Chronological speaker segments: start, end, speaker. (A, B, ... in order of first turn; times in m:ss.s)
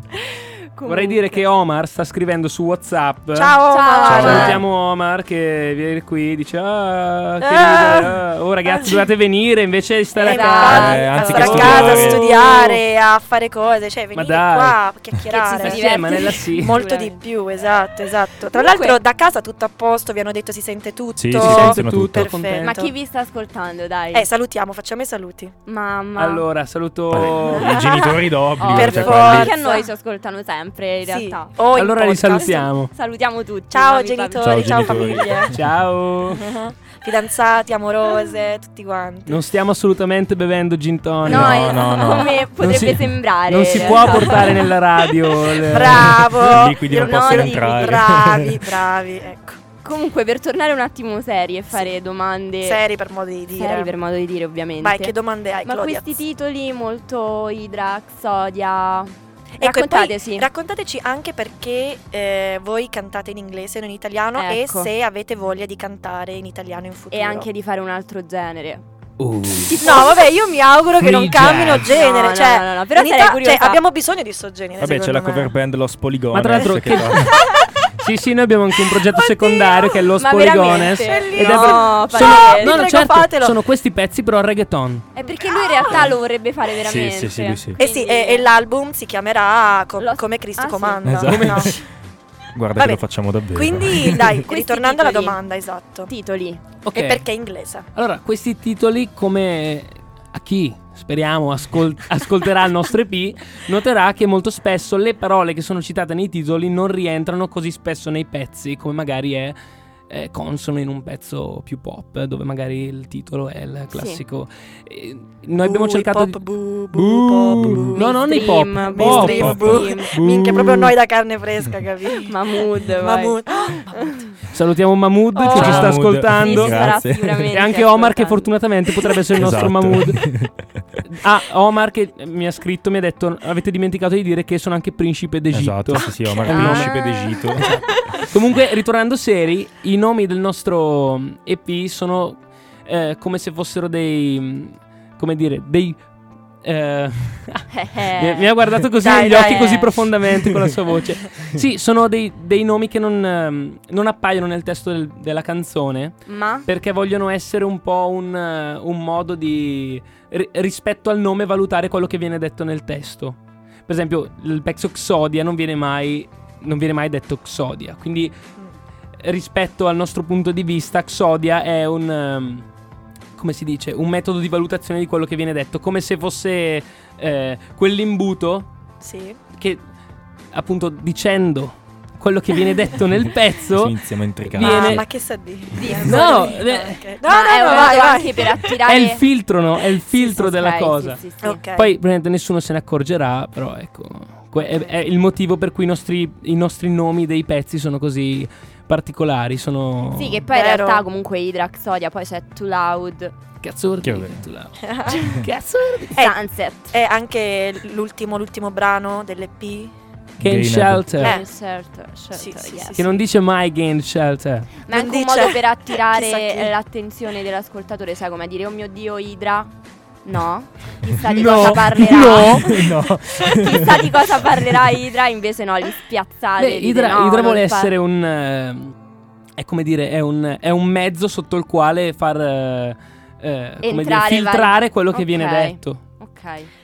0:00.2-0:01.4 A
0:00.8-0:12.1 B
0:03.3-0:04.6 C
0:03.7-0:04.6 A
0:04.0-0:04.6 D
0:07.4-0:08.2 C
0:10.2-0:22.9 C
0:10.2-0:12.7 A
0:10.6-0:12.2 D
0:14.1-0:14.8 B
0:15.2-0:17.2 A
0:15.5-0:16.8 B
0:18.5-0:19.0 A
0:21.2-0:22.3 D
0:21.3-0:22.7 B
0:22.6-0:24.3 A
0:24.1-0:25.5 C
0:25.7-0:26.4 A
0:26.2-0:27.8 B
0:27.1-0:29.5 D
0:27.5-0:29.9 C
0:28.6-0:35.2 A
0:31.0-0:32.7 C
0:31.7-0:32.9 B
0:33.7-0:35.6 C
0:34.4-0:35.6 D
0:35.5-0:36.4 B
0:36.3-0:39.4 C
0:39.3-0:41.8 B
0:41.2-0:42.4 D
0:41.2-0:44.7 A
0:42.6-0:46.2 B
0:45.4-0:49.6 C
0:45.8-0:48.7 D
0:46.8-0:48.1 A
0:49.8-0:52.8 A
0:52.6-0:53.9 C
0:53.6-0:55.1 A
0:54.8-0:56.2 C
0:55.6-1:00.5 A
0:59.6-1:07.5 C
1:04.3-1:04.9 A
1:07.1-1:08.8 A
1:09.2-1:09.8 D
1:09.6-1:10.2 A
1:09.8-1:15.5 C
1:11.0-1:11.9 D
1:11.8-1:13.8 A
1:14.8-1:17.4 D
1:16.3-1:17.4 B
1:16.7-1:17.9 C
1:18.0-1:25.1 B
1:18.9-1:20.0 C
1:20.2-1:22.8 A
1:21.0-1:23.6 C
1:25.1-1:28.5 A
1:25.2-1:26.1 C
1:26.8-1:27.8 D
1:27.8-1:31.8 C
1:30.0-1:31.3 A
1:31.0-1:31.8 D
1:31.2-1:31.7 B
1:32.5-1:34.4 D
1:32.8-1:36.1 C
1:34.4-1:35.4 A
1:36.1-1:36.6 A
1:36.8-1:37.2 B
1:36.9-1:37.8 C
1:37.9-1:49.6 B
1:50.1-1:56.4 B
1:53.9-1:54.2 A
1:55.6-1:58.1 C
1:56.9-2:00.9 B
1:57.5-1:57.9 D
1:58.0-2:00.2 A
1:58.9-2:04.3 C
1:59.2-1:59.9 D
2:02.2-2:03.4 A
2:03.9-2:04.2 A
2:04.5-2:06.8 B
2:05.4-2:08.5 A
2:05.4-2:06.0 C
2:05.5-2:07.6 D
2:07.5-2:10.3 B
2:09.4-2:10.6 D
2:11.0-2:16.9 B
2:15.5-2:17.8 D
2:16.0-2:16.7 C
2:16.5-2:17.5 A
2:17.5-2:26.0 B
2:26.6-2:48.3 B
2:27.7-2:28.5 A
2:29.0-2:30.0 C
2:29.1-2:29.8 A
2:36.2-2:36.7 A
2:49.2-2:52.6 B
2:53.4-2:58.7 B
2:59.0-2:59.4 C
3:00.5-3:05.0 B
3:03.7-3:05.1 D
3:04.6-3:08.7 C
3:05.7-3:06.6 A
3:06.0-3:07.1 B
3:07.2-3:09.2 A
3:07.6-3:07.9 B
3:08.8-3:11.2 B
3:10.1-3:11.6 A
3:11.4-3:11.9 C
3:11.8-3:20.4 B
3:20.1-3:23.3 A
3:20.5-3:21.0 C
3:23.6-3:26.2 B
3:24.0-3:24.4 D
3:24.8-3:25.4 C
3:26.2-3:26.9 A
3:26.9-3:29.9 C
3:30.4-3:31.3 B
3:30.4-3:31.2 D
3:31.2-3:31.4 C
3:31.2-3:33.1 A
3:32.3-3:33.2 C
3:33.0-3:34.8 B
3:34.9-3:39.7 A
3:34.9-3:36.7 C
3:40.2-3:47.9 A
3:41.2-3:42.9 B
3:42.5-3:44.7 D
3:46.6-3:48.9 B
3:49.6-3:56.0 B
3:53.8-3:56.7 A